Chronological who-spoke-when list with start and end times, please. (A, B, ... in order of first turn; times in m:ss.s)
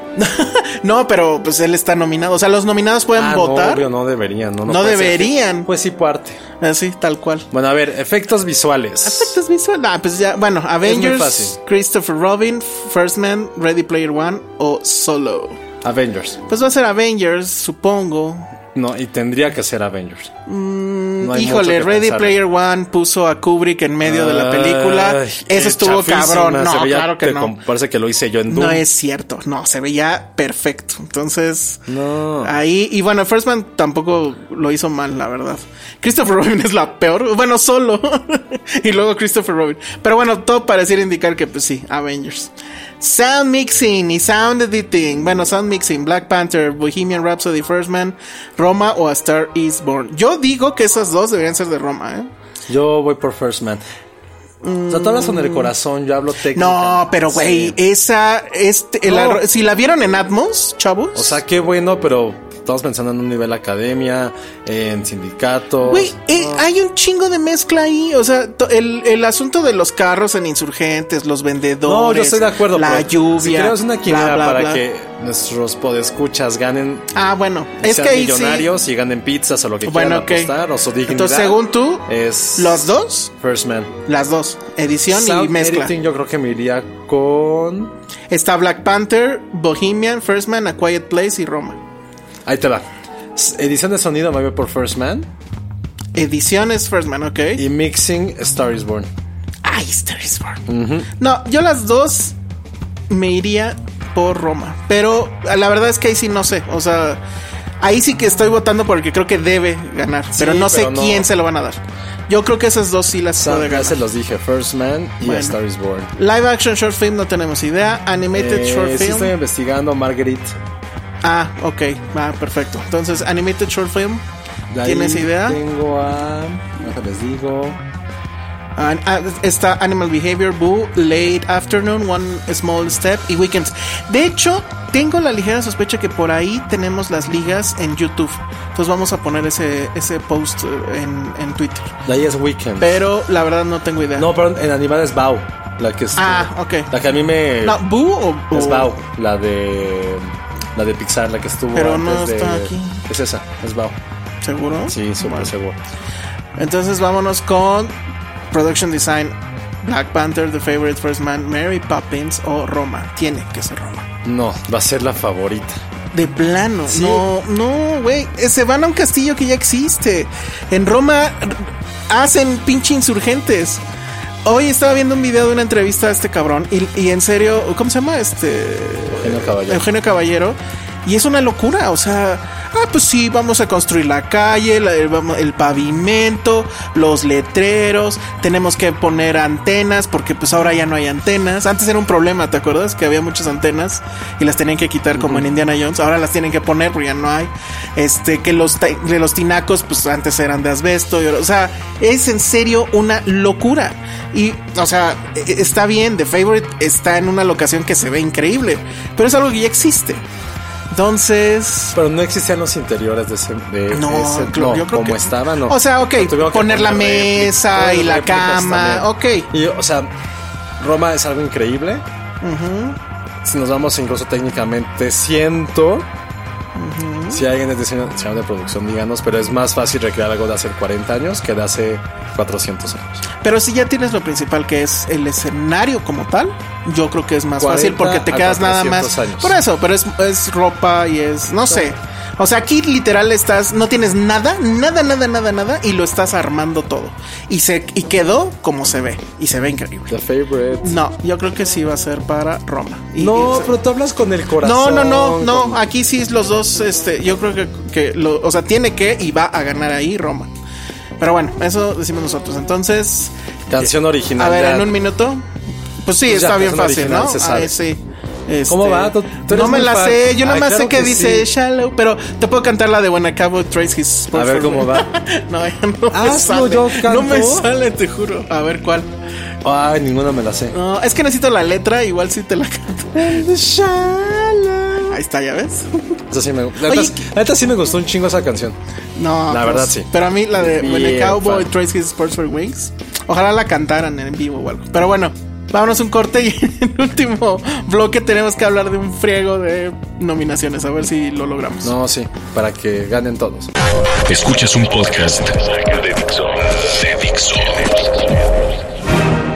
0:00.2-0:03.9 A
0:03.1-0:06.4 B
0:04.6-0:05.7 A
0:06.6-0:07.5 A
0:07.5-0:09.4 B
0:09.0-0:15.6 A
0:10.8-0:11.6 B
0:15.8-0:16.4 B
0:16.5-0:18.5 A
0:18.7-0:20.3 B
0:20.5-0:27.5 A
0:21.2-0:22.4 B
0:24.0-0:28.8 B
0:28.5-0:31.9 A
0:31.9-0:32.5 B
0:32.4-0:52.3 A
0:52.7-0:53.8 B
0:54.6-0:55.7 A
0:54.9-0:57.8 B
0:56.5-1:01.4 A
0:59.0-0:59.4 B
1:01.1-1:06.6 B
1:05.8-1:14.8 A
1:11.8-1:17.1 B
1:17.1-1:18.7 A
1:17.8-1:24.0 B
1:19.8-1:20.5 A
1:21.1-1:22.0 A
1:22.6-1:23.3 A
1:24.1-1:25.9 A
1:25.1-1:27.9 B
1:28.3-1:31.8 A
1:32.4-1:35.3 B
1:36.1-1:37.6 A
1:37.6-1:39.1 B
1:39.6-1:40.6 A
1:40.7-1:41.1 B
1:41.2-1:42.4 A
1:43.1-1:47.2 A
1:47.8-1:54.0 A
1:50.3-1:51.3 B
1:53.4-1:56.1 B
1:55.2-1:55.6 A
1:56.1-1:59.3 A
1:58.3-2:00.6 B
2:01.2-2:04.2 A
2:04.7-2:07.8 B
2:04.8-2:05.6 A
2:08.8-2:22.0 A
2:22.0-2:23.0 B
2:22.8-2:24.3 A
2:24.2-2:27.8 B
2:26.2-2:26.9 A
2:27.6-2:28.9 A
2:28.5-2:34.0 B
2:31.7-2:33.0 A
2:34.4-2:35.5 A
2:34.9-2:35.8 B
2:36.6-2:37.9 A
2:38.5-2:44.1 A
2:44.2-2:45.8 B
2:46.1-2:53.8 A
2:46.9-2:47.2 B
2:54.4-3:30.2 A
2:59.1-2:59.8 B
3:15.2-3:15.5 B
3:30.9-3:32.0 A
3:31.9-3:40.1 B
3:33.9-3:39.5 A
3:40.8-3:42.0 B
3:42.4-3:43.0 A
3:43.4-3:46.1 B
3:46.7-3:47.4 A
3:47.3-3:53.2 B
3:53.4-4:10.1 A
3:57.6-3:59.6 B
4:10.1-4:11.0 B
4:10.8-4:13.8 A
4:13.2-4:15.8 B
4:14.6-4:20.5 A
4:21.2-4:23.3 A
4:23.7-4:24.9 B
4:24.4-4:25.4 A
4:26.0-4:39.1 A
4:26.2-4:27.8 B
4:28.7-4:31.5 B
4:34.3-4:35.1 B
4:36.1-4:37.7 B
4:39.6-4:40.8 B
4:40.7-4:43.5 A
4:43.2-4:45.2 B
4:45.1-4:46.2 A
4:46.3-4:48.8 B
4:46.8-4:47.2 A
4:49.2-5:01.9 A
4:49.5-4:51.7 B
5:01.8-5:03.7 B
5:04.2-5:08.4 C